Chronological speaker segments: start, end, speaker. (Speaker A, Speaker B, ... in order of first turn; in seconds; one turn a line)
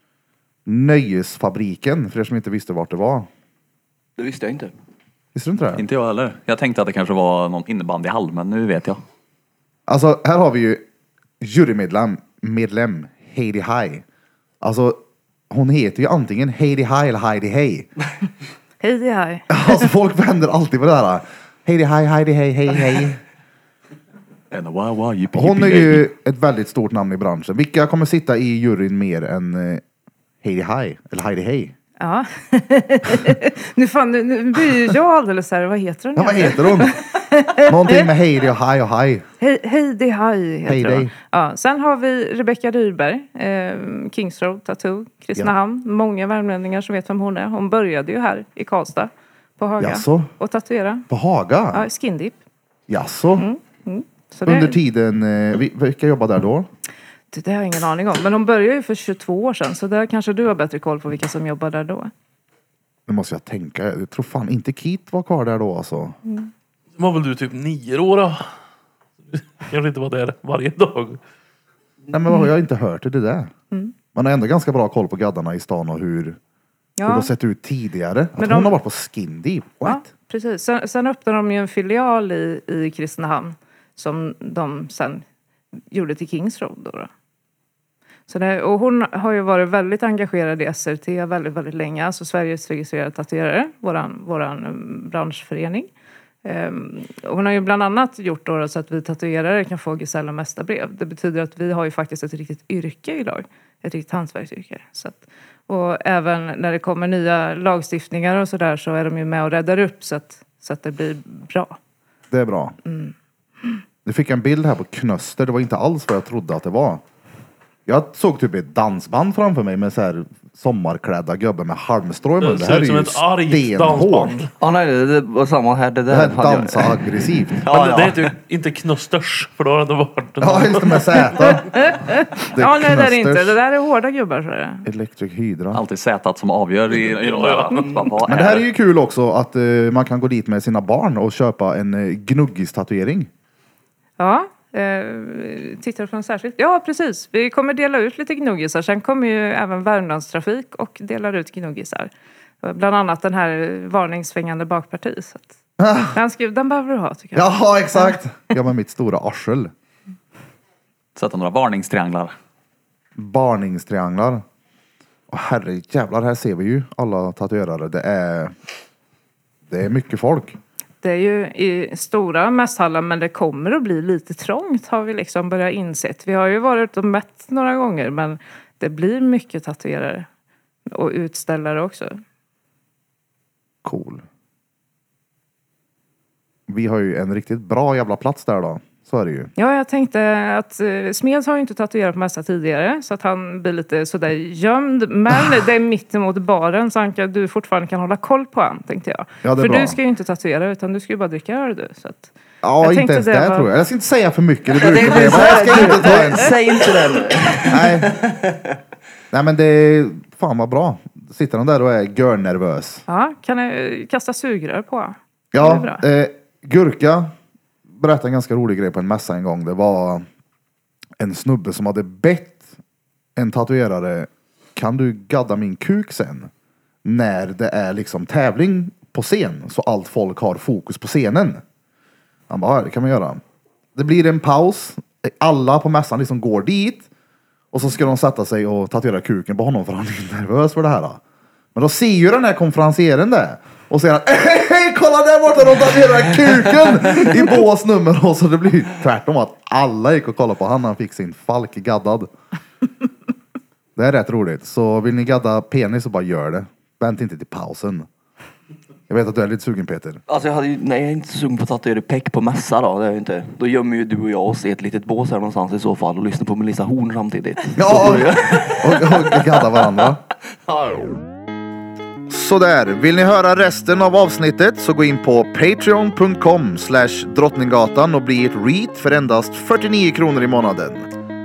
Speaker A: 0.7-3.3
Speaker B: 4.2-4.7
Speaker A: 5.3-5.8
Speaker C: 5.7-9.0
Speaker A: 9.9-10.8
Speaker A: 11.4-14.0
Speaker A: 14.6-15.0
Speaker A: 15.5-17.9
Speaker D: 18.8-19.8
Speaker A: 19.5-23.2
Speaker C: 24.5-26.0
Speaker A: 25.3-29.8
Speaker A: 30.4-31.7
Speaker D: 32.0-38.1
Speaker A: 36.1-37.0
Speaker A: 37.6-39.2
Speaker D: 39.4-51.0
Speaker A: 40.6-41.1
Speaker A: 49.8-50.3
Speaker A: 51.1-51.9
Speaker D: 51.7-52.4
Speaker A: 52.9-53.5
Speaker D: 53.4-54.8
Speaker A: 54.5-56.7
Speaker D: 57.3-62.1
Speaker A: 63.1-66.2
Speaker E: 67.0-68.5
Speaker E: 69.4-71.2
Speaker A: 72.1-73.5
Speaker A: 74.1-76.4
Speaker D: 77.0-77.3
Speaker A: 77.0-80.1
Speaker D: 78.4-78.7
Speaker D: 79.8-85.2
Speaker D: 85.9-87.1
Speaker D: 88.3-95.9
Speaker D: 96.4-111.8
Speaker A: 112.3-112.8
Speaker D: 112.8-113.8
Speaker A: 114.0-117.0
Speaker A: 117.8-124.4
Speaker E: 122.4-124.5
Speaker B: 124.6-128.3
Speaker A: 126.1-127.7
Speaker E: 127.7-131.0
Speaker A: 130.4-131.8
Speaker D: 131.4-134.8
Speaker A: 132.4-133.6
Speaker A: 134.8-135.8
Speaker C: 135.7-138.7
Speaker E: 137.3-137.8
Speaker A: 138.2-143.3
Speaker D: 144.2-155.6
Speaker A: 155.8-156.2
Speaker D: 156.1-158.2
Speaker A: 157.3-159.7
Speaker C: 161.2-162.3
Speaker A: 163.2-164.4
Speaker A: 165.3-168.5
Speaker A: 169.7-170.6
Speaker D: 171.0-180.3
Speaker D: 180.9-182.2
Speaker A: 183.8-184.2
Speaker A: 186.7-189.5
Speaker D: 189.6-203.7
Speaker A: 199.4-200.0
Speaker A: 202.6-206.5
Speaker B: 204.8-208.6
Speaker D: 205.0-206.5
Speaker A: 207.7-208.2
Speaker A: 209.3-213.0
Speaker D: 213.1-216.0
Speaker A: 215.5-217.3
Speaker A: 218.0-220.2
Speaker A: 221.2-222.7
Speaker A: 223.3-226.5
Speaker A: 227.0-231.6
Speaker A: 232.5-233.4
Speaker A: 233.9-237.1
Speaker A: 237.7-241.2
Speaker A: 241.7-252.3
Speaker A: 253.9-258.1
Speaker A: 259.1-260.2
Speaker B: 260.3-269.3
Speaker A: 267.8-270.2
Speaker B: 270.8-271.1
Speaker A: 272.3-281.1